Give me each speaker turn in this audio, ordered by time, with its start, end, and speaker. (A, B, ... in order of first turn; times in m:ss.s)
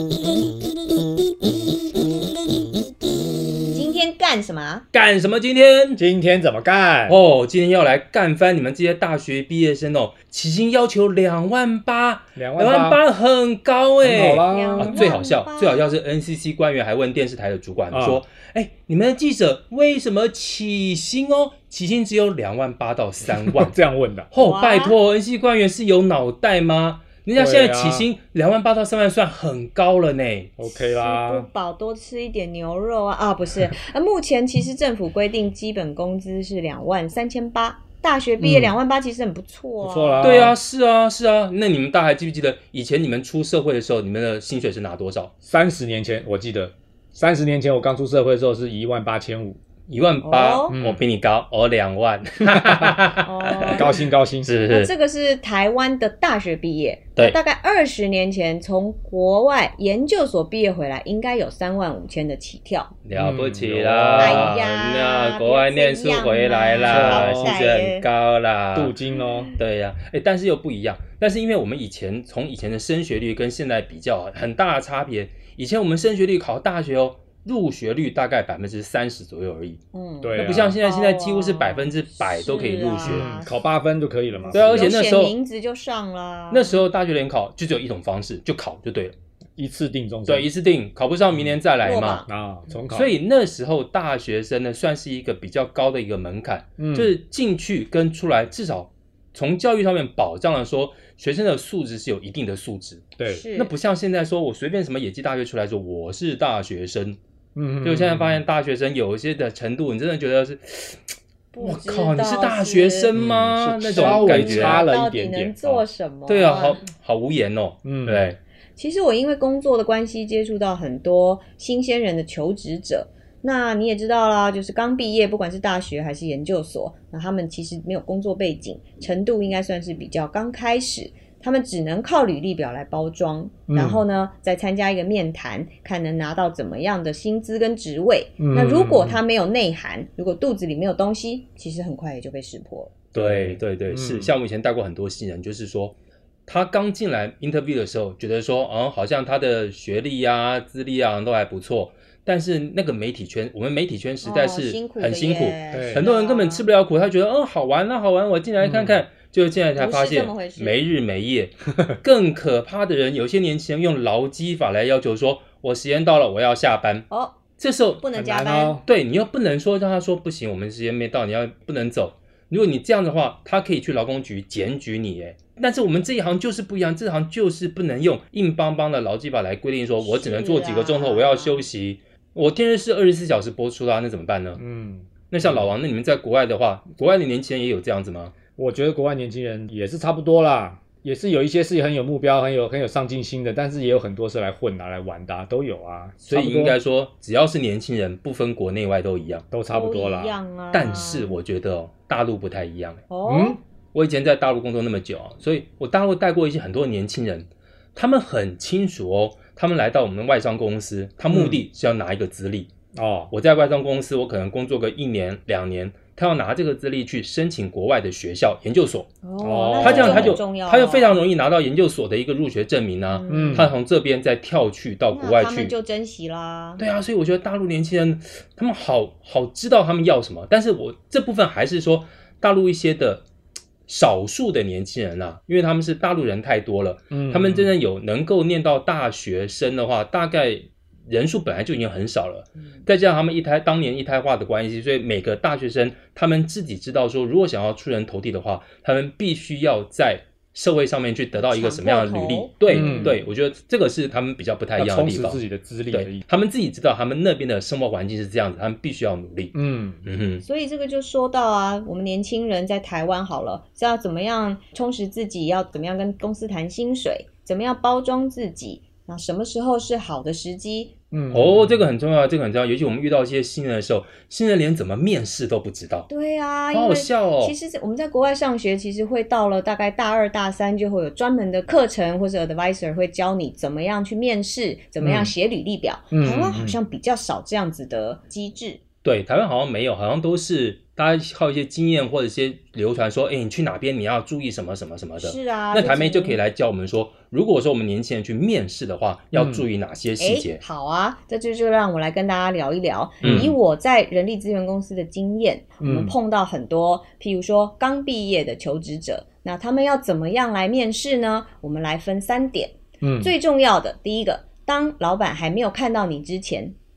0:03.7-0:04.9 A
0:04.9-0:06.0 B
0:06.0-0:07.2 C
0:07.1-0:23.8 B
0:12.4-0:13.0 C
0:14.0-0:15.0 C
0:14.2-0:16.0 A
0:17.9-0:18.2 C
0:23.3-0:24.3 C
0:24.3-0:30.5 B
0:24.4-0:25.0 A
0:27.4-0:28.1 C
0:30.6-0:31.5 C
0:30.6-0:40.5 A
0:38.4-0:38.7 C
0:39.8-0:40.6 C
0:40.2-0:45.3 B
0:45.4-0:49.6 C
0:49.9-0:53.9 B
0:50.2-0:50.8 A
0:50.7-0:51.0 C
0:52.5-0:53.0 C
0:53.2-0:54.0 A
0:53.6-0:54.5 C
0:54.4-0:54.9 B
0:54.7-1:02.9 A
1:03.0-1:09.0 B
1:03.1-1:04.6 C
1:04.2-1:08.1 A
1:06.9-1:07.6 C
1:08.8-1:09.5 C
1:09.2-1:09.6 A
1:09.6-1:19.8 B
1:19.9-1:23.6 A
1:20.2-1:20.8 C
1:20.4-1:23.2 B
1:23.0-1:24.9 C
1:24.4-1:26.9 A
1:24.5-1:25.3 B
1:26.5-1:29.2 B
1:29.6-1:30.5 C
1:30.3-1:32.2 B
1:31.8-1:32.3 A
1:32.3-1:33.1 C
1:32.9-1:47.2 B
1:36.8-1:37.1 C
1:43.2-1:43.4 C
1:43.3-1:43.7 A
1:47.6-1:48.4 C
1:47.8-1:51.0 B
1:51.5-1:53.1 A
1:51.6-1:54.8 B
1:53.2-1:55.8 C
1:53.9-1:56.8 A
1:56.3-1:58.4 B
1:57.8-1:58.2 C
1:58.8-2:23.0 A
2:13.7-2:14.0 C
2:18.4-2:19.2 C
2:23.1-2:24.3 C
2:23.1-2:26.0 B
2:26.5-2:47.1 B
2:34.2-2:36.7 A
2:35.7-2:36.0 C
2:38.6-2:39.0 C
2:39.8-2:40.8 A
2:47.1-2:47.4 A
2:47.6-2:48.2 B
2:48.0-2:48.8 A
2:48.2-2:48.8 C
2:48.8-3:04.6 B
3:00.0-3:01.7 A
3:04.6-3:05.7 C
3:05.3-3:08.3 B
3:08.6-3:16.8 C
3:16.2-3:19.5 B
3:19.5-3:20.4 C
3:19.7-3:21.4 A
3:20.7-3:23.0 B
3:23.1-3:23.6 A
3:23.3-3:23.6 C
3:23.9-3:32.7 B
3:31.3-3:31.6 C
3:33.0-3:33.3 C
3:33.3-3:39.1 B
3:39.2-3:41.2 A
3:39.4-3:40.4 C
3:39.8-3:45.7 B
3:43.1-3:43.7 A
3:43.3-3:43.7 C
3:45.1-3:46.8 A
3:46.8-3:53.2 B
3:53.9-4:15.4 B
3:57.1-3:57.7 C
4:11.4-4:13.2 A
4:12.7-4:13.2 C
4:14.8-4:16.2 C
4:15.9-4:20.4 B
4:19.5-4:20.0 C
4:20.4-4:30.9 A
4:31.1-4:31.9 C
4:31.3-4:36.1 B
4:36.1-4:48.8 A
4:36.7-4:37.6 B
4:45.0-4:45.3 C
4:46.1-4:46.8 C
4:49.0-5:00.6 B
4:55.2-4:56.4 A
4:59.3-4:59.7 C
5:00.2-5:16.8 A
5:03.2-5:03.6 C
5:03.2-5:03.5 B
5:05.8-5:06.1 C
5:13.0-5:13.4 C